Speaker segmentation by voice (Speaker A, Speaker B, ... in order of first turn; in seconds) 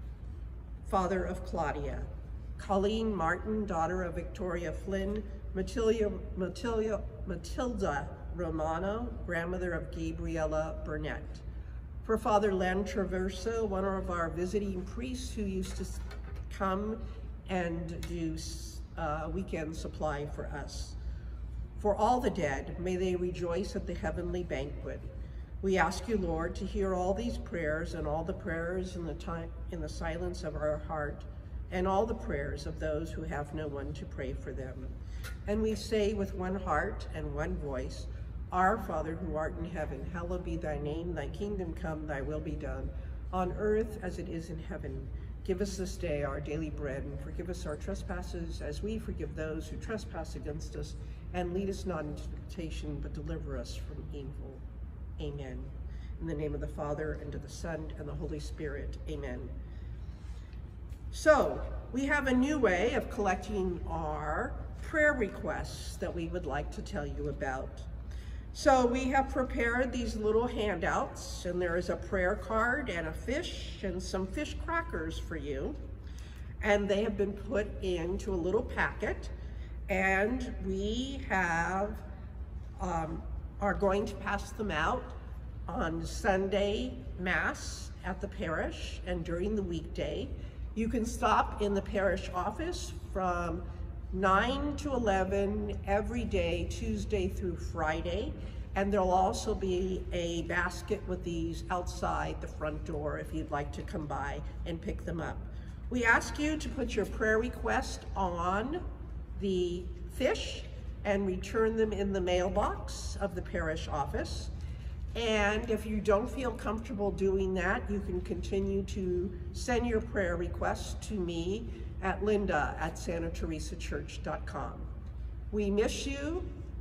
Speaker A: 0.8-11.4, 12.0-21.0, 21.8-25.1, 25.6-35.0, 35.5-54.6, 55.2-59.5, 61.1-67.9, 68.5-75.8, 76.6-79.3, 79.9-82.0, 82.8-85.1, 85.7-108.8, 109.3-114.5, 115.2-124.9, 125.5-126.5